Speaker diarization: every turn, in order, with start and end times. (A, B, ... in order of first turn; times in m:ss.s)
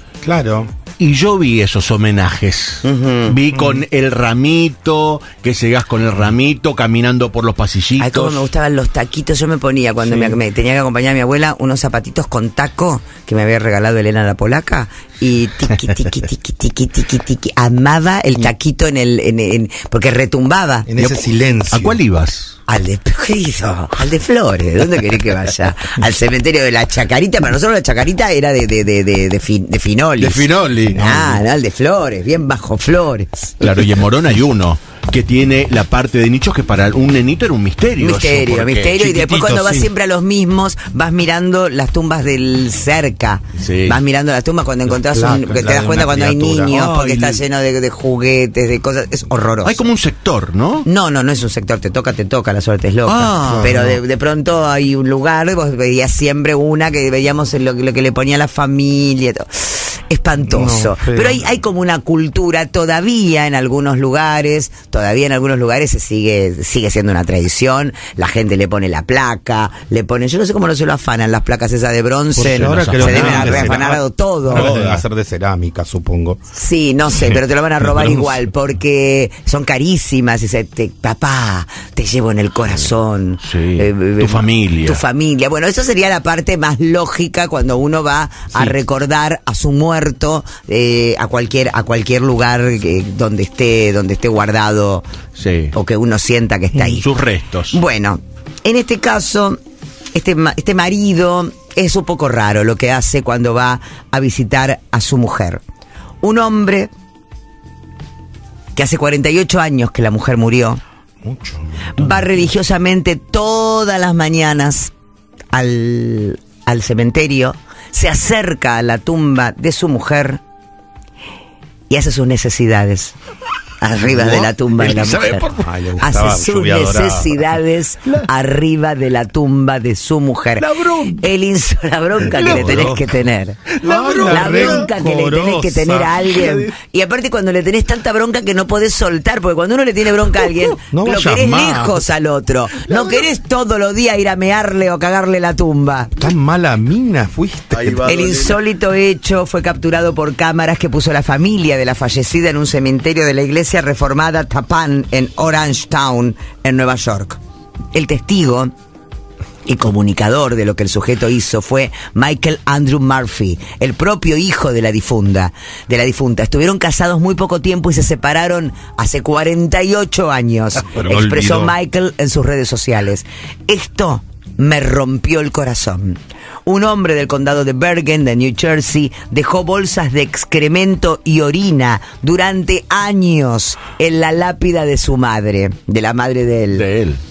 0:00.2-0:00.7 A
0:01.0-0:08.4 B
0:02.8-0:03.4 C
0:03.5-0:03.8 A
0:08.0-0:21.3 C
0:20.9-0:22.0 A
0:21.7-0:22.6 B
0:22.7-0:33.5 C
0:30.2-0:31.4 B
0:30.9-0:31.2 A
0:33.6-0:38.9 B
0:38.0-0:49.9 C
0:39.0-0:39.9 A
0:43.6-0:44.0 B
0:45.1-0:46.8 A
0:46.7-0:47.4 B
0:49.6-0:50.8 B
0:50.8-1:14.8 C
0:53.0-0:53.9 B
0:53.4-0:53.9 A
1:00.5-1:01.4 A
1:12.4-1:16.4 A
1:12.4-1:13.8 B
1:14.5-1:15.0 B
1:16.5-1:35.0 C
1:17.9-1:18.2 A
1:23.4-1:25.0 B
1:35.4-1:35.7 B
1:35.7-1:37.1 C
1:36.7-1:37.8 B
1:37.7-1:39.6 C
1:40.1-1:45.6 C
1:46.2-1:46.9 C
1:48.7-1:50.8 C
1:51.2-1:52.2 A
1:52.0-1:54.9 C
1:55.5-2:00.4 C
2:01.9-2:03.1 C
2:03.8-2:05.5 C
2:04.1-2:05.7 B
2:05.5-2:07.4 A
2:06.0-2:13.6 C
2:10.6-2:11.2 B
2:12.2-2:13.0 B
2:12.3-2:13.0 A
2:13.7-2:14.9 B
2:13.8-2:16.3 A
2:14.3-2:26.2 C
2:16.2-2:16.7 B
2:20.9-2:22.0 A
2:22.8-2:23.2 B
2:26.2-2:28.1 A
2:27.7-2:28.6 B
2:28.0-2:37.4 C
2:37.9-2:38.7 C
2:39.6-3:06.8 C
2:50.9-2:51.7 A
3:06.7-3:07.2 B